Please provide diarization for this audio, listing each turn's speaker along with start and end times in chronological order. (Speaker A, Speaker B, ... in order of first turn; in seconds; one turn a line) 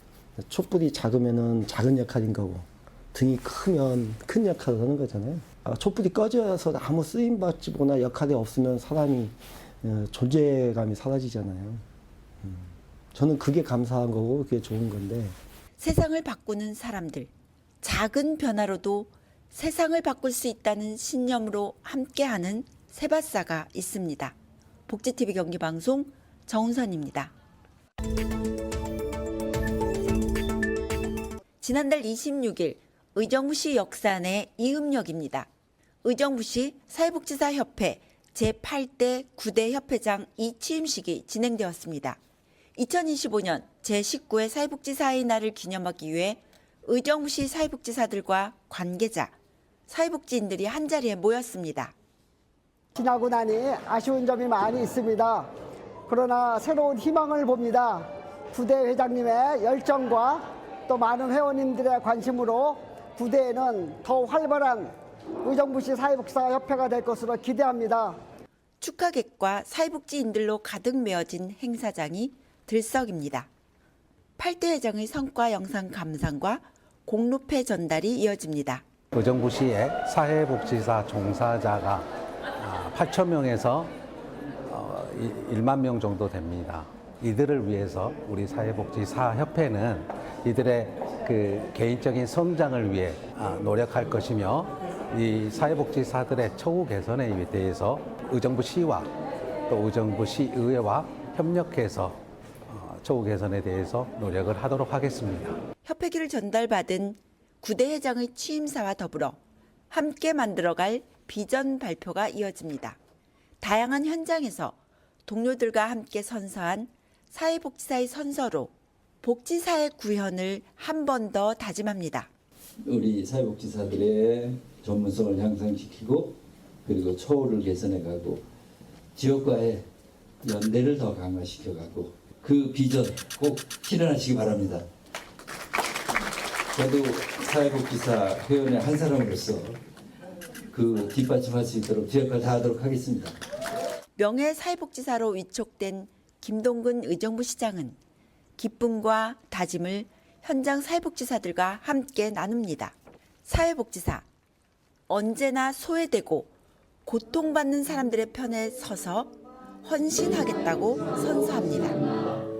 Speaker A: 0.4-11.8
Speaker A: 12.4-15.4
Speaker B: 15.8-17.3
Speaker B: 17.8-24.3
Speaker B: 24.9-27.3
Speaker B: 31.6-35.5
Speaker B: 36.0-42.2
Speaker B: 42.8-49.3
Speaker B: 49.9-51.9
Speaker C: 53.0-55.5
Speaker C: 56.1-64.9
Speaker C: 65.4-68.2
Speaker B: 68.8-73.5
Speaker B: 74.4-78.8
Speaker D: 79.1-82.1
Speaker D: 82.6-83.9
Speaker D: 84.7-99.1
Speaker D: 99.7-105.6
Speaker B: 105.8-109.4
Speaker B: 109.9-113.0
Speaker B: 113.6-122.3
Speaker E: 122.8-128.4
Speaker E: 129.1-129.9
Speaker E: 130.4-134.9
Speaker E: 136.8-139.8
Speaker E: 140.7-143.4
Speaker B: 144.2-148.0
Speaker B: 148.6-154.2
Speaker B: 155.1-156.5
Speaker B: 157.1-162.0